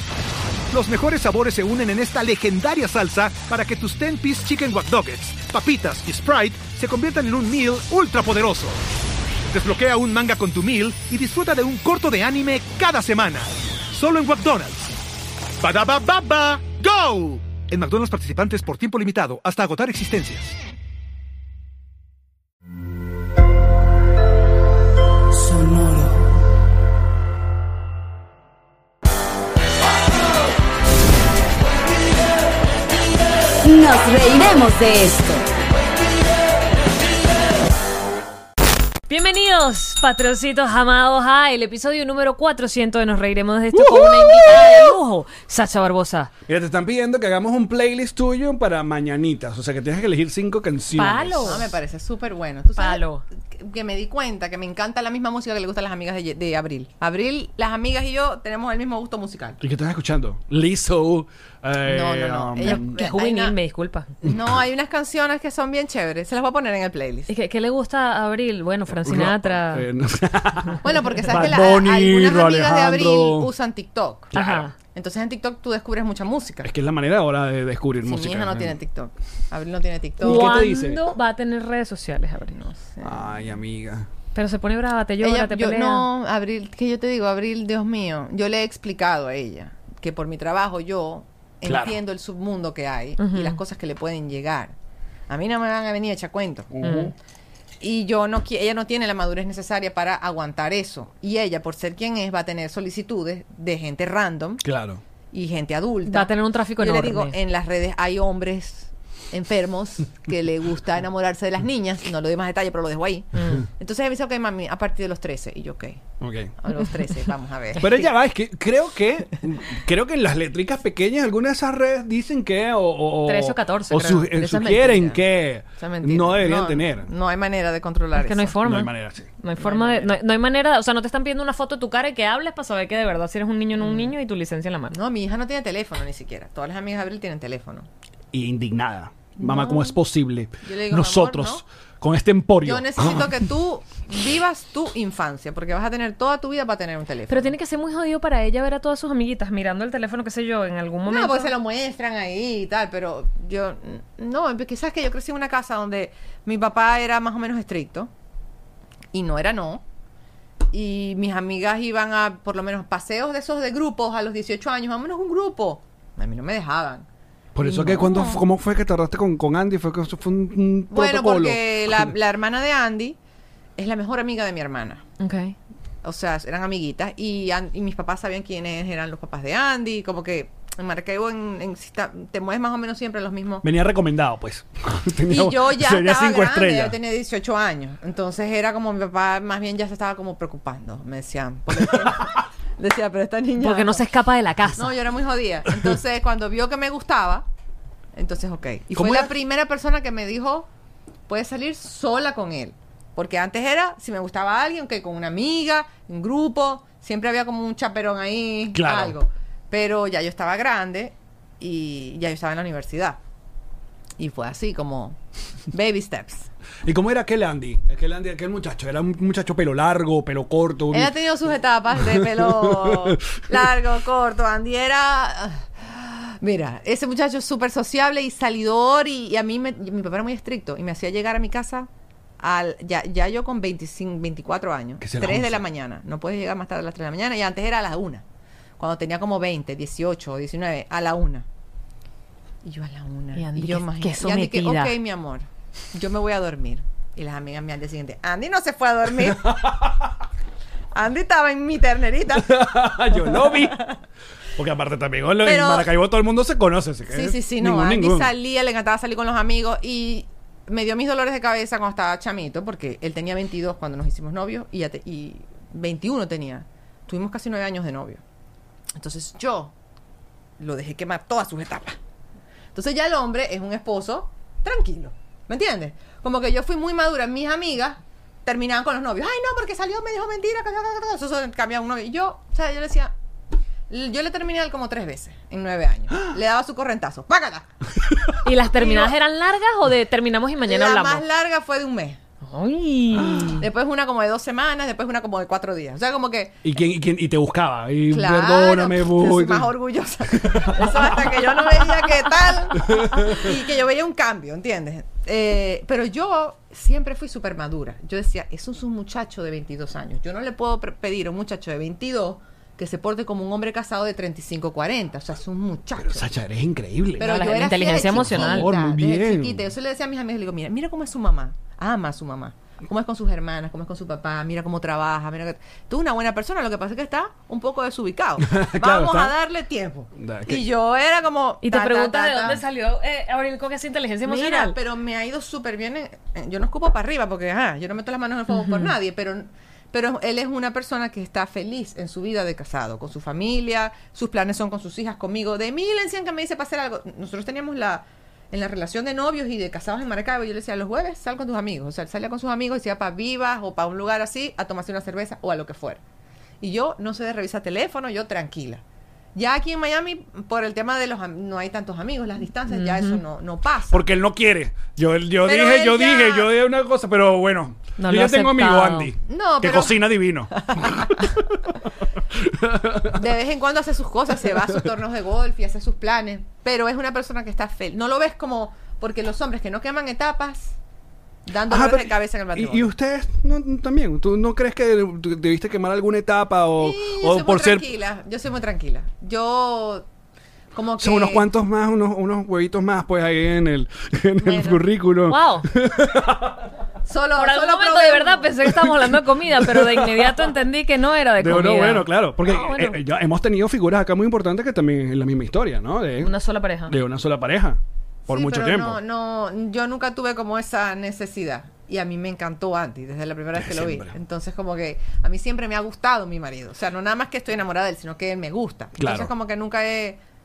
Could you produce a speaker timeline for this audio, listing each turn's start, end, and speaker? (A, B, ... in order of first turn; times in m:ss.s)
0:00.7-0:08.8 A
0:09.5-0:14.9 A
0:15.6-0:20.5 A
0:25.3-0:26.2 B
0:33.6-0:35.5 B
0:39.1-0:46.3 C
0:46.5-0:51.6 D
0:51.0-0:51.7 C
0:51.4-0:59.6 E
0:52.8-0:53.2 C
0:59.6-1:02.9 D
1:01.8-1:03.6 E
1:02.6-1:04.1 C
1:04.2-1:07.3 E
1:07.3-1:09.8 C
1:09.0-1:13.5 D
1:10.8-1:14.3 E
1:14.3-1:14.7 D
1:14.3-1:14.7 C
1:14.9-1:16.7 E
1:16.6-1:18.7 D
1:18.0-1:20.6 E
1:20.2-1:22.6 C
1:20.2-1:21.0 D
1:22.5-1:23.4 E
1:23.0-1:24.1 D
1:24.3-1:26.1 C
1:25.2-1:34.7 E
1:31.6-1:32.0 D
1:33.2-1:33.6 C
1:35.3-1:36.7 E
1:36.7-1:37.1 D
1:36.8-1:37.1 C
1:37.8-1:44.6 E
1:44.6-1:45.0 D
1:45.3-1:56.0 E
1:46.0-1:47.4 C
1:56.2-1:56.5 D
1:56.6-1:58.1 E
1:57.8-2:07.1 D
2:03.2-2:04.2 C
2:03.9-2:08.6 E
2:08.1-2:15.0 C
2:08.6-2:09.3 D
2:09.6-2:10.2 E
2:13.8-2:14.1 E
2:14.9-2:17.9 E
2:18.3-2:23.4 D
2:19.4-2:19.9 E
2:20.6-2:21.6 E
2:22.6-2:27.5 E
2:27.3-2:31.5 C
2:31.0-2:38.1 E
2:39.1-2:39.8 E
2:40.7-2:47.0 E
2:47.5-2:52.1 D
2:47.6-2:48.2 C
2:48.0-2:48.4 E
2:50.9-2:53.2 E
2:53.8-2:55.0 E
2:55.2-2:55.6 C
2:56.0-3:03.6 E
3:03.6-3:07.0 D
3:05.2-3:14.0 E
3:12.0-3:12.4 D
3:13.6-3:14.9 C
3:14.8-3:17.4 E
3:15.7-3:15.9 D
3:18.1-3:20.7 E
3:18.9-3:19.3 D
3:21.3-3:33.2 E
3:28.7-3:29.1 D
3:34.2-3:35.2 E
3:35.7-3:36.5 E
3:36.8-3:41.1 D
3:40.9-3:58.2 E
3:42.0-3:43.6 D
3:55.0-3:55.6 D
3:58.8-4:01.4 E
4:02.6-4:09.7 E
4:03.4-4:05.0 C
4:09.2-4:10.0 D
4:10.9-4:14.0 E
4:12.3-4:13.8 D
4:14.6-4:18.3 D
4:15.4-4:15.9 E
4:17.1-4:28.2 E
4:29.0-4:29.7 E
4:30.6-4:32.0 E
4:32.7-4:43.1 E
4:43.9-4:47.7 E
4:48.3-4:49.2 E
4:48.4-4:51.2 C
4:50.6-4:52.2 E
4:52.4-4:53.6 C
4:53.2-4:53.5 D
4:53.5-4:56.6 E
4:56.6-4:59.7 D
4:58.1-5:16.3 E
5:00.3-5:01.3 D
5:02.9-5:03.5 D
5:16.0-5:17.4 D
5:17.2-5:32.6 E
5:17.2-5:18.7 C
5:18.1-5:19.6 D
5:28.5-5:29.3 D
5:30.2-5:30.6 D
5:31.6-5:34.8 C
5:34.2-5:56.0 E
5:38.5-5:38.9 C
5:56.6-5:58.8 E
5:59.3-6:04.1 E
6:02.7-6:03.2 C
6:03.9-6:13.2 D
6:05.4-6:06.5 E
6:08.0-6:09.1 C
6:09.2-6:11.4 E
6:13.1-6:20.8 E
6:21.4-6:22.9 E
6:21.7-6:27.9 D
6:26.8-6:30.0 E
6:30.7-6:31.5 E
6:31.0-6:36.7 D
6:34.4-6:34.8 E
6:35.3-6:35.7 C
6:37.1-6:38.5 E
6:37.4-6:43.0 C
6:39.5-6:40.5 D
6:41.4-6:46.3 D
6:46.2-6:46.9 C
6:46.9-6:49.0 D
6:48.3-7:00.2 E
6:53.6-6:54.1 D
6:59.0-6:59.3 D